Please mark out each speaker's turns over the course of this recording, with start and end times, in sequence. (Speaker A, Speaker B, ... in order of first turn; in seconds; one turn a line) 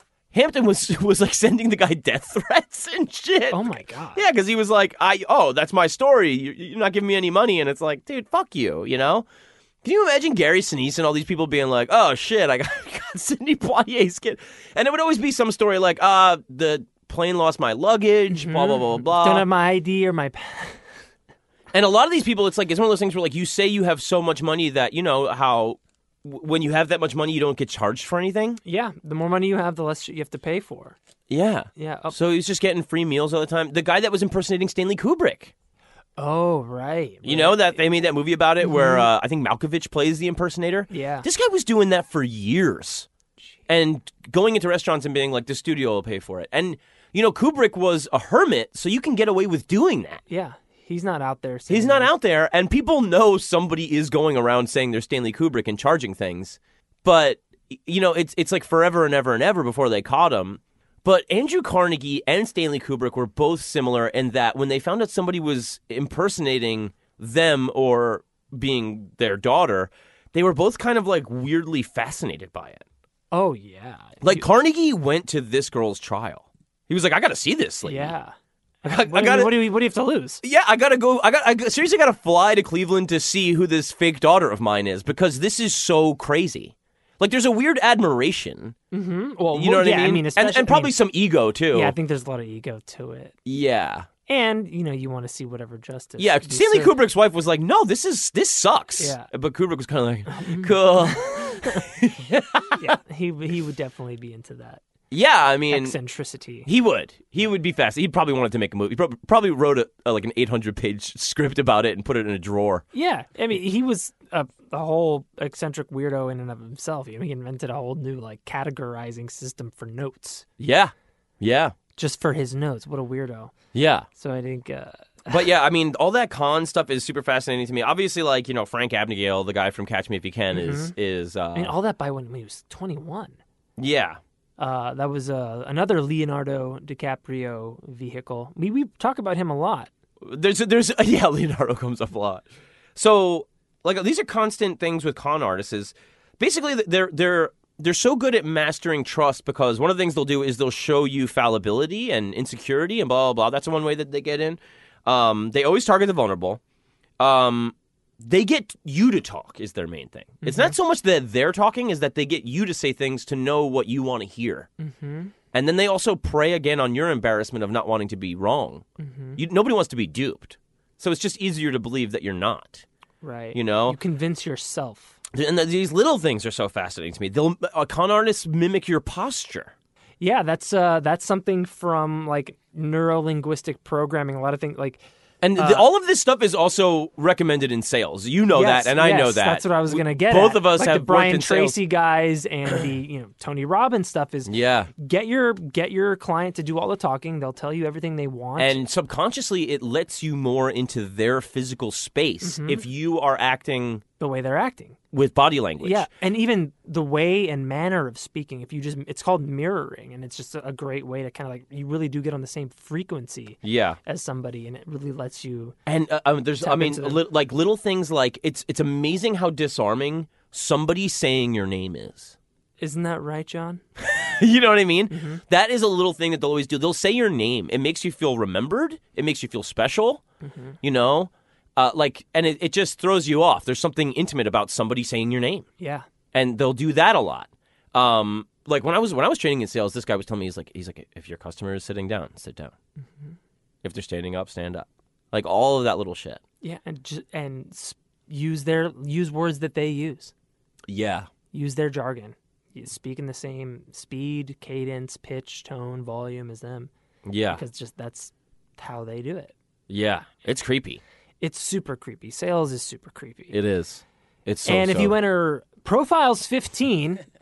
Speaker A: 0.3-9.3
Speaker B: 3.5-4.2
Speaker A: 9.8-19.5
Speaker B: 18.3-20.8
Speaker A: 21.7-28.6
Speaker B: 28.6-31.0
Speaker A: 31.3-35.5
Speaker B: 31.8-32.2
Speaker B: 36.2-37.8
Speaker A: 37.2-43.1
Speaker B: 38.6-39.1
Speaker B: 40.9-41.3
Speaker A: 43.7-50.2
Speaker B: 50.3-52.1
Speaker A: 51.7-72.8
Speaker B: 73.3-74.5
Speaker A: 74.2-78.1
Speaker B: 77.8-80.4
Speaker A: 78.8-79.6
Speaker A: 80.4-88.8
Speaker B: 88.9-91.0
Speaker A: 89.5-92.0
Speaker B: 91.7-93.3
Speaker A: 93.5-94.1
Speaker B: 94.3-97.0
Speaker A: 96.2-102.9
Speaker B: 99.0-99.3
Speaker B: 100.3-101.9
Speaker B: 102.8-104.8
Speaker A: 105.1-106.0
Speaker B: 105.7-106.7
Speaker A: 106.7-112.8
Speaker B: 112.9-120.5
Speaker A: 120.6-121.7
Speaker B: 122.0-123.5
Speaker A: 123.7-124.1
Speaker B: 124.2-125.5
Speaker A: 125.3-131.8
Speaker B: 130.5-130.9
Speaker B: 131.5-133.4
Speaker A: 133.8-134.2
Speaker B: 134.6-139.9
Speaker A: 140.2-142.4
Speaker A: 143.0-156.6
Speaker A: 157.2-164.7
Speaker B: 160.4-160.8
Speaker B: 164.8-165.3
Speaker A: 165.5-168.8
Speaker B: 169.0-169.4
Speaker A: 169.4-172.8
Speaker B: 173.2-175.2
Speaker A: 173.5-174.0
Speaker A: 175.3-179.7
Speaker B: 180.2-185.0
Speaker A: 185.4-191.8
Speaker B: 185.6-185.9
Speaker B: 188.5-198.8
Speaker A: 194.5-194.9
Speaker A: 198.6-204.0
Speaker B: 202.4-202.8
Speaker B: 204.2-205.0
Speaker A: 205.1-206.1
Speaker B: 205.8-215.8
Speaker A: 213.6-214.0
Speaker A: 215.9-222.3
Speaker B: 216.6-217.2
Speaker B: 222.8-223.8
Speaker A: 224.0-230.2
Speaker B: 225.1-225.4
Speaker B: 230.4-230.8
Speaker A: 230.8-235.7
Speaker B: 235.8-236.1
Speaker A: 236.3-242.7
Speaker A: 243.8-246.4
Speaker B: 246.6-250.3
Speaker A: 250.9-251.3
Speaker B: 251.5-256.9
Speaker A: 257.2-257.6
Speaker B: 257.5-259.5
Speaker A: 259.9-261.0
Speaker B: 261.4-263.6
Speaker A: 263.5-265.1
Speaker B: 264.6-267.2